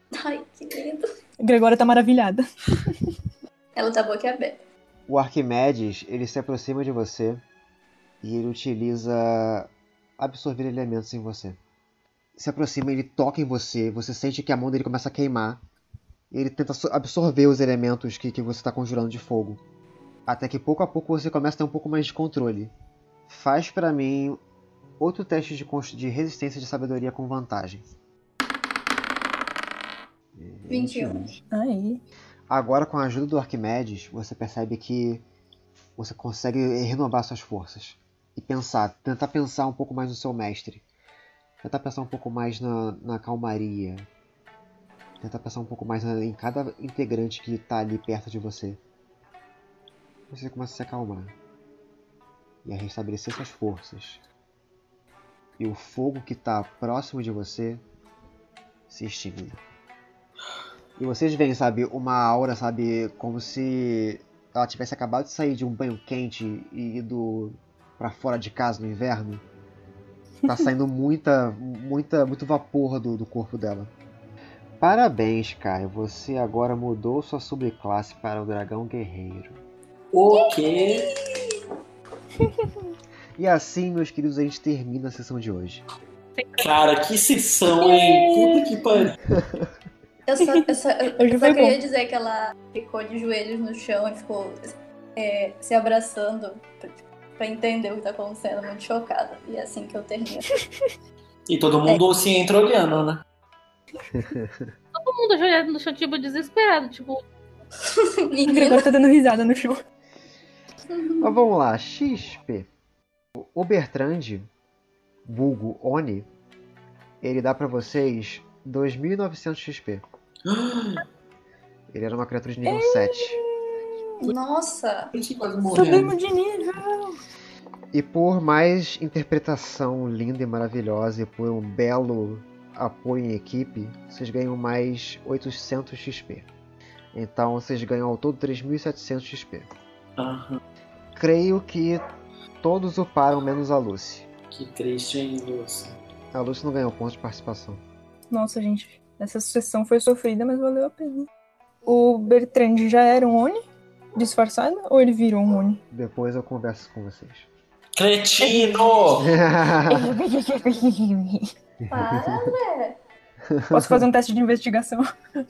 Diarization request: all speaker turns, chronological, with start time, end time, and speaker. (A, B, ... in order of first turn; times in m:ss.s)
0:00.2-0:01.0 A
0:01.4-0:02.9 B
0:03.8-0:04.6 A
0:05.1-0:07.4 C
0:08.2-0:11.6 C
0:12.3-0:15.6 C
0:16.3-0:19.6 C
0:20.3-0:22.7 C
0:23.3-0:24.4 C
0:25.0-0:27.8 C
0:30.3-0:31.4 C
0:30.7-0:31.3 A
0:31.5-0:32.0 B
0:32.5-0:35.2 C
0:36.0-0:40.8 C
0:41.6-0:44.1 C
0:45.2-0:48.8 C
0:50.3-0:51.3 C
0:52.6-0:54.2 C
0:55.6-0:57.8 C
0:58.9-0:59.6 C
1:01.0-1:09.4 C
1:10.4-1:13.9 C
1:14.8-1:19.6 C
1:20.1-1:21.1 D
1:20.3-1:21.6 A
1:22.4-1:22.7 B
1:23.4-1:25.8 C
1:26.4-1:26.6 E
1:26.6-1:29.2 D
1:27.8-1:28.7 B
1:29.3-1:29.7 C
1:30.2-1:40.5 A
1:30.4-1:31.8 B
1:41.5-1:43.2 D
1:44.1-1:44.7 C
1:45.0-1:47.2 E
1:47.8-1:48.8 A
1:48.4-1:49.8 B
1:50.9-1:51.3 A
1:51.2-1:52.7 C
1:53.4-1:54.5 C
1:55.2-1:56.3 C
1:57.2-2:00.0 C
2:00.4-2:01.0 D
2:01.9-2:03.4 C
2:02.6-2:04.3 B
2:04.2-2:05.1 A
2:05.1-2:06.1 D
2:05.7-2:07.2 B
2:07.9-2:16.5 C
2:17.1-2:19.7 C
2:20.2-2:20.6 D
2:21.1-2:22.0 C
2:22.6-2:24.3 C
2:24.5-2:26.0 D
2:26.3-2:27.8 C
2:28.3-2:31.3 B
2:31.8-2:33.6 B
2:34.2-2:35.8 B
2:35.9-2:37.5 C
2:38.0-2:39.3 D
2:38.4-2:38.9 B
2:39.2-2:40.1 C
2:39.8-2:41.5 B
2:41.8-2:42.5 C
2:41.9-2:43.0 A
2:43.4-2:44.1 C
2:43.7-2:45.1 B